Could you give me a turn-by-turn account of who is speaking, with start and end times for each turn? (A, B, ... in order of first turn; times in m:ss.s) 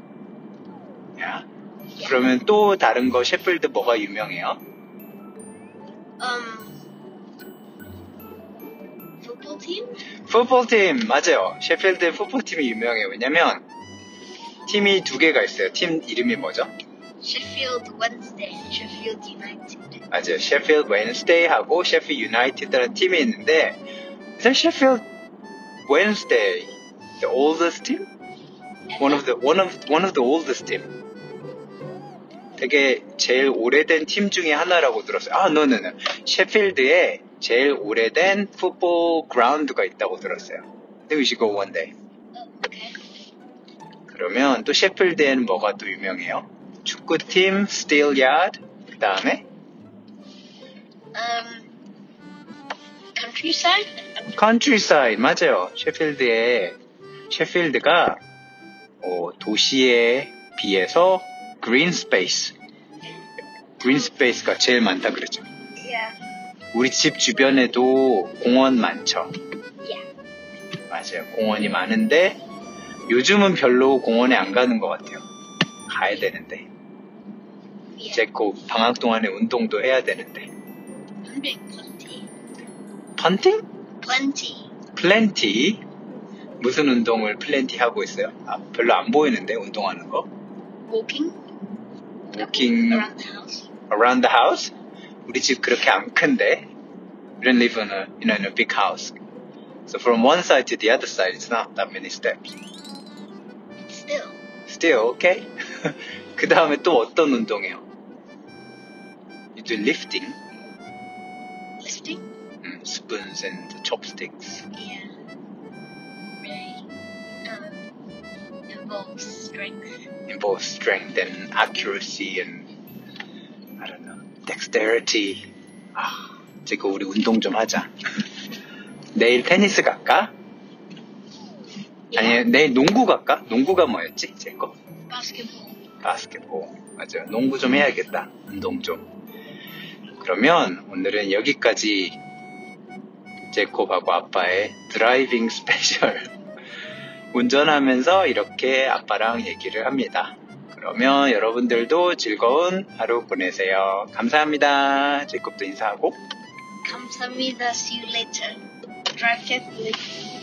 0:01.2-0:01.5 A
0:02.0-0:04.6 A
0:06.2-0:06.8 B
0:09.2-0:09.9 B
0:10.3-0:13.6 A
0:14.7-0:16.7 A
0:17.2-0:20.0 B
0:20.1-0:23.8 A
0:24.4-0:25.1 A
0:25.9-0:28.1 A
0:28.9-0:29.3 B
0:29.0-0:30.9 A
0:32.6-0:41.9 A
0:42.3-0:43.0 B
0:44.1-0:49.5 A
0:51.1-0:51.7 B
0:53.2-0:54.1 B
0:54.3-0:56.8 A
0:57.3-0:58.2 A
0:59.0-1:02.6 A
1:03.8-1:05.4 A
1:05.8-1:06.2 B
1:06.7-1:09.3 A
1:10.9-1:12.4 A
1:13.1-1:15.2 A
1:15.9-1:16.7 A
1:18.0-1:18.3 B
1:18.1-1:20.5 A
1:21.2-1:22.3 B
1:23.2-1:23.7 A
1:24.0-1:24.7 B
1:24.9-1:25.8 A
1:26.6-1:30.3 A
1:30.8-1:31.4 B
1:32.3-1:33.1 A
1:32.3-1:33.7 B
1:33.9-1:34.7 A
1:35.3-1:36.7 A
1:37.4-1:39.2 A
1:39.9-1:42.6 A
1:43.8-1:44.4 B
1:44.7-1:47.8 A
1:49.6-1:50.4 A
1:51.8-1:52.2 B
1:52.6-1:54.7 A
1:54.7-1:55.2 B
1:56.4-1:56.9 B
1:57.4-1:57.8 B
1:58.7-1:59.9 B
2:00.3-2:02.7 A
2:03.8-2:07.9 A
2:09.1-2:10.3 A
2:12.1-2:14.8 A
2:15.1-2:15.8 B
2:16.0-2:19.1 A
2:20.2-2:22.2 A
2:23.5-2:26.3 A
2:27.3-2:36.2 A
2:36.8-2:40.2 B